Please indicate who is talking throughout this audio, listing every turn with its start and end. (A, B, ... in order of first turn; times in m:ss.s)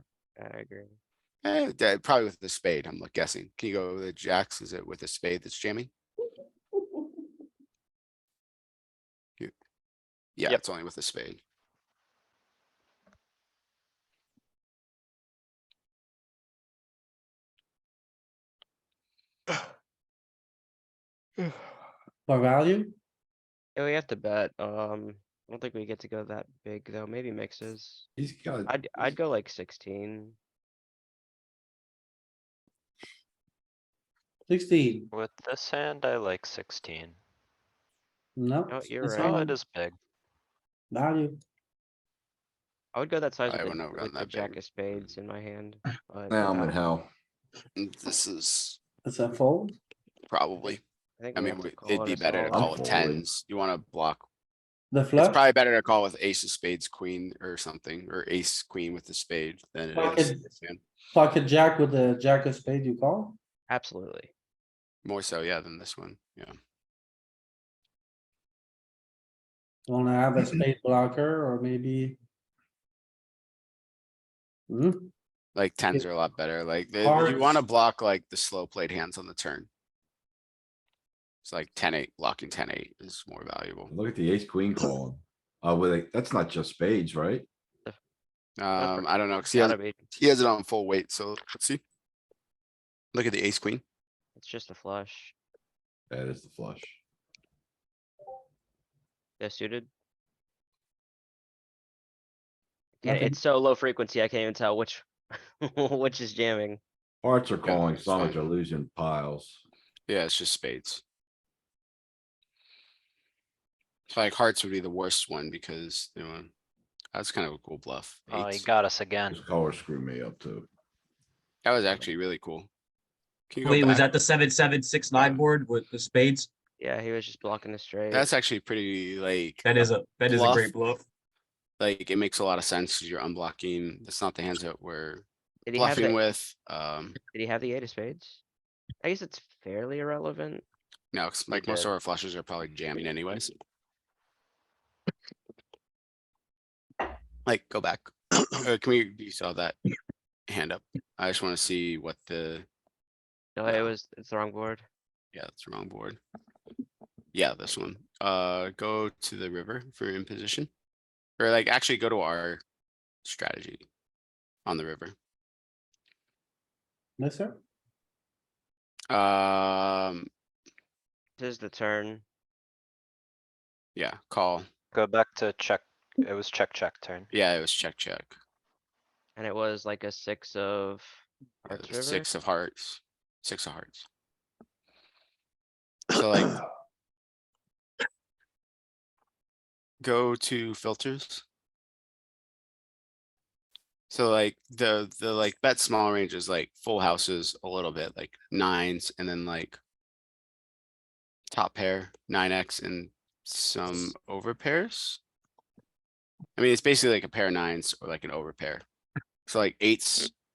0:00.4-0:01.0 A
0:01.4-0:05.9 B
0:10.4-0:11.4 B
0:22.3-0:23.0 C
0:23.8-0:28.1 A
0:28.2-0:29.1 D
0:28.7-0:30.4 A
0:34.5-0:35.1 C
0:35.1-0:37.2 E
0:38.4-0:39.6 C
0:38.7-0:39.3 A
0:39.0-0:40.0 E
0:40.9-0:41.4 C
0:42.9-0:46.7 A
0:43.5-0:45.2 B
0:46.3-0:47.1 D
0:47.8-0:48.8 B
0:49.0-0:49.8 C
0:50.3-0:50.8 B
0:51.2-0:52.7 A
0:51.3-0:54.2 B
0:52.5-0:53.2 D
0:54.9-0:55.4 C
0:55.2-1:00.8 B
0:59.9-1:00.4 C
1:01.1-1:03.4 C
1:03.7-1:04.3 A
1:05.0-1:06.6 B
1:09.9-1:12.2 C
1:14.7-1:15.1 C
1:15.5-1:19.7 B
1:17.0-1:17.6 C
1:21.4-1:23.9 B
1:23.9-1:27.4 D
1:28.6-1:31.8 B
1:28.8-1:30.0 A
1:33.1-1:33.8 B
1:34.4-1:35.4 A
1:36.1-1:37.0 D
1:39.4-1:39.9 A
1:43.0-1:46.8 A
1:43.0-1:43.4 C
1:47.2-1:49.6 D
1:47.6-1:48.4 B
1:50.1-1:51.0 B
1:54.1-1:56.5 B
1:57.1-1:58.7 B
1:58.3-1:59.4 E
1:59.3-2:00.7 D
2:01.6-2:02.7 B
2:03.5-2:04.1 B
2:03.6-2:06.5 F
2:05.1-2:05.4 B
2:06.8-2:08.3 A
2:08.1-2:10.7 B
2:09.6-2:11.0 F
2:11.8-2:17.2 B
2:15.7-2:16.2 A
2:17.2-2:18.4 A
2:19.0-2:20.6 A
2:21.1-2:23.5 B
2:27.4-2:29.7 B
2:30.5-2:32.7 B
2:33.6-2:34.8 A
2:33.6-2:33.9 B
2:35.3-2:36.2 B
2:37.3-2:40.7 B
2:41.4-2:42.6 B
2:43.2-2:43.9 B
2:44.6-2:45.1 B
2:47.2-2:47.6 C
2:49.1-2:50.3 B
2:51.4-2:52.2 A
2:53.9-2:54.7 B
2:54.9-2:57.3 E
2:57.3-2:58.4 B
2:59.4-3:02.3 A
3:01.7-3:04.0 B
3:06.1-3:06.6 B
3:10.0-3:11.4 B
3:14.1-3:19.8 B
3:21.5-3:25.2 B
3:26.6-3:28.8 B
3:29.4-3:30.3 B